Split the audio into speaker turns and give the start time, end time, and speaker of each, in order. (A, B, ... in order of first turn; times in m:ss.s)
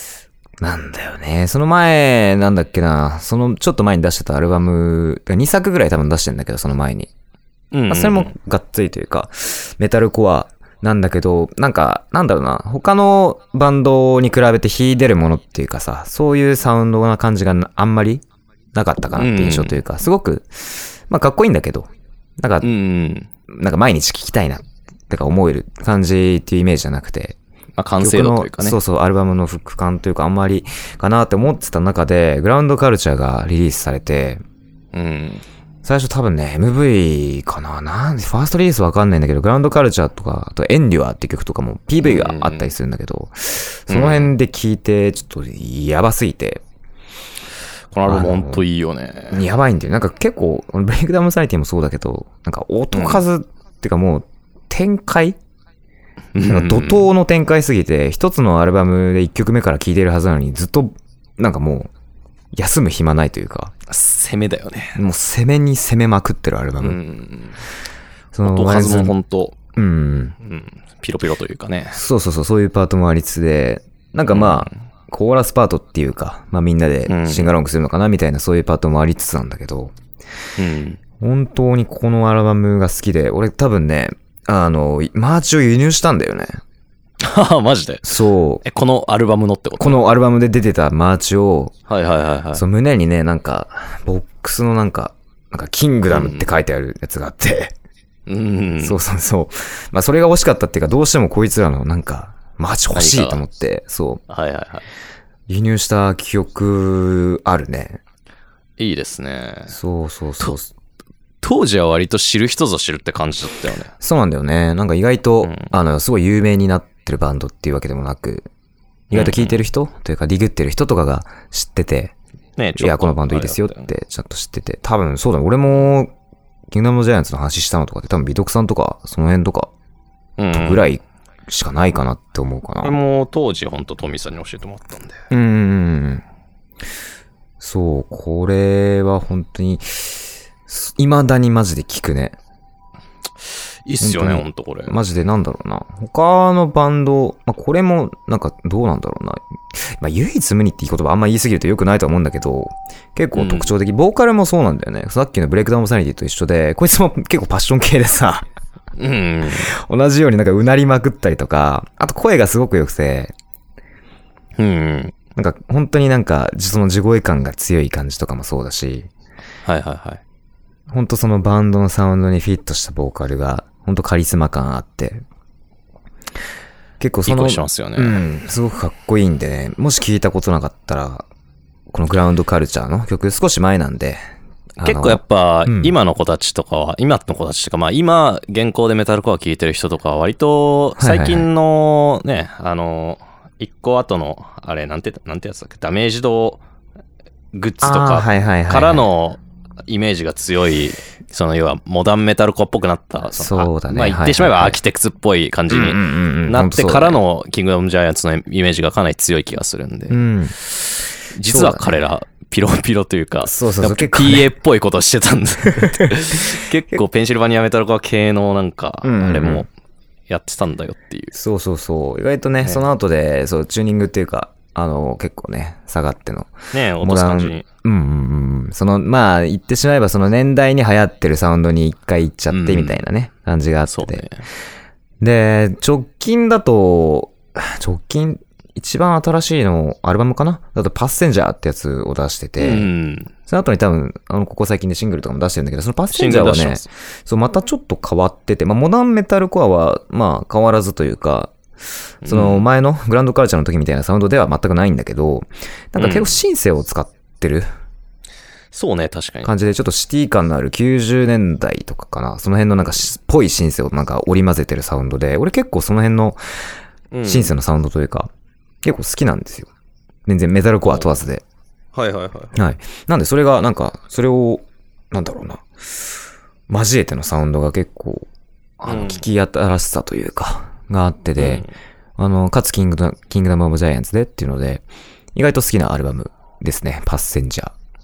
0:00.6-0:07.1 A
0:07.7-0:08.3 B
0:07.9-0:22.7 A
0:19.2-0:19.8 B
0:22.6-0:23.3 B
0:23.5-0:27.4 A
0:27.8-0:28.8 B
0:28.0-0:34.4 A
0:34.9-0:35.4 B
0:35.8-0:46.6 A
0:42.0-0:42.7 B
0:43.9-0:44.3 B
0:47.9-0:49.4 B
0:48.1-0:48.6 A
0:49.3-0:55.4 A
0:52.9-0:53.2 B
0:56.4-0:57.1 B
0:56.4-1:01.9 A
1:02.5-1:03.8 A
1:03.9-1:05.0 B
1:05.0-1:07.0 A
1:06.8-1:07.6 B
1:08.3-1:09.2 A
1:08.4-1:09.6 B
1:09.8-1:10.4 A
1:10.4-1:12.0 B
1:11.9-1:20.0 A
1:14.3-1:14.7 B
1:17.1-1:17.5 B
1:20.6-1:21.0 B
1:21.2-1:26.6 A
1:27.2-1:30.0 B
1:28.0-1:28.6 A
1:29.8-1:31.7 A
1:31.9-1:32.6 B
1:32.5-1:37.7 A
1:36.1-1:36.4 B
1:38.3-1:39.0 B
1:38.8-1:44.2 A
1:42.9-1:43.4 B
1:44.3-1:44.9 B
1:45.5-1:48.0 A
1:48.8-1:49.8 B
1:49.7-1:50.7 A
1:51.4-1:53.9 B
1:54.0-1:58.5 A
1:55.4-1:55.7 B
1:59.1-1:59.6 B
1:59.1-2:02.1 A
2:02.6-2:03.9 B
2:02.8-2:06.1 A
2:06.7-2:09.7 A
2:10.4-2:10.9 B
2:10.5-2:13.0 A
2:12.8-2:15.2 B
2:15.3-2:16.2 A
2:17.6-2:22.4 A
2:23.9-2:25.0 B
2:24.0-2:38.5 A
2:33.4-2:33.7 B
2:39.0-2:39.7 B
2:39.5-2:43.3 A
2:44.6-2:45.2 B
2:45.4-2:49.1 A
2:49.7-2:50.2 B
2:50.9-2:55.2 A
2:57.0-3:01.3 A
2:57.3-2:58.2 B
3:01.9-3:04.2 A
3:04.8-3:06.0 A
3:04.8-3:16.6 B
3:11.0-3:11.5 A
3:17.5-3:30.2 B
3:17.8-3:19.1 A
3:23.4-3:24.8 A
3:25.7-3:27.2 A
3:30.1-3:30.6 A
3:30.7-3:39.7 B
3:31.5-3:31.9 A
3:33.4-3:34.5 A
3:35.8-3:36.2 A
3:39.0-3:39.7 A
3:40.3-3:41.4 B
3:41.3-3:54.3 A
3:46.7-3:47.6 B
3:52.5-3:53.0 B
3:53.9-3:54.4 B
3:55.2-4:02.9 A
4:02.6-4:03.3 B
4:03.5-4:11.6 A
4:06.1-4:06.9 B
4:12.2-4:12.6 B
4:12.2-4:17.7 A
4:16.0-4:16.4 B
4:18.7-4:19.5 B
4:19.4-4:26.4 A
4:27.1-4:27.5 B
4:27.2-4:28.3 A
4:28.8-4:29.7 A
4:30.3-4:31.4 A
4:31.9-4:32.6 B
4:32.6-4:35.7 A
4:36.7-4:38.3 A
4:38.8-4:41.7 A
4:38.8-4:39.2 B
4:41.4-4:41.7 B
4:42.2-4:44.8 A
4:45.4-4:47.7 A